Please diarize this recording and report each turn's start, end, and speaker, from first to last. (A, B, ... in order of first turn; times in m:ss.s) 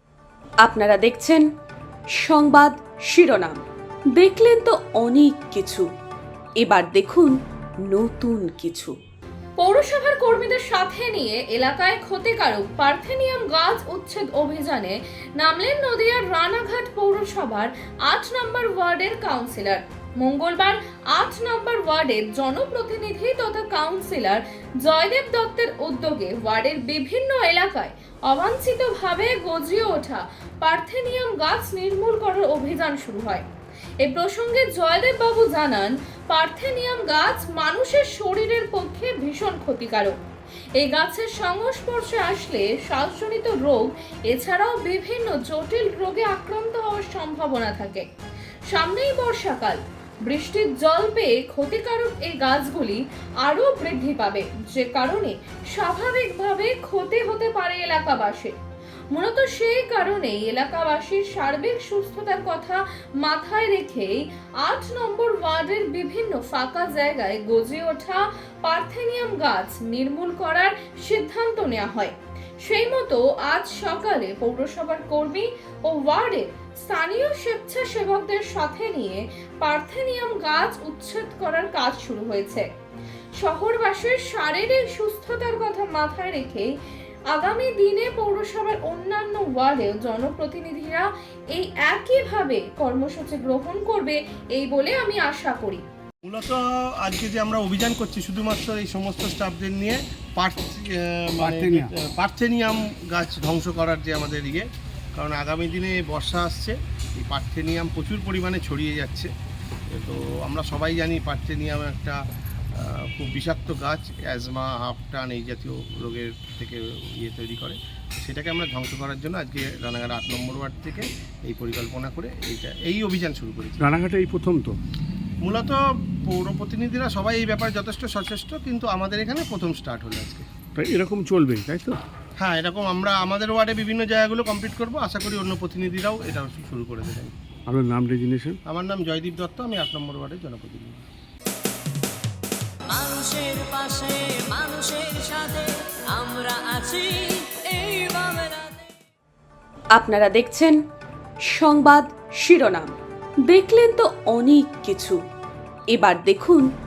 0:00.6-0:01.5 A
0:02.1-0:03.6 A
0:04.2-0:05.9 A
0:06.6-0:07.4 A
0:07.9-0:09.0 A
0:09.6-0:33.5 B
0:34.0-0:40.2 B
0:40.8-0:48.1 B
0:48.7-0:58.6 B
0:59.1-1:22.7 B
1:23.4-1:26.7 B
1:27.3-1:35.8 B
1:36.2-1:49.3 C
1:41.4-1:41.9 D
1:49.9-1:52.2 C
1:52.8-2:03.9 C
2:03.8-2:04.8 D
2:05.4-2:10.4 C
2:10.8-2:12.0 D
2:12.4-2:17.3 C
2:17.7-2:18.6 D
2:18.7-2:21.0 C
2:22.9-2:28.9 E
2:30.0-2:30.8 A
2:31.5-2:32.9 A
2:33.5-2:35.2 A
2:35.9-2:36.7 A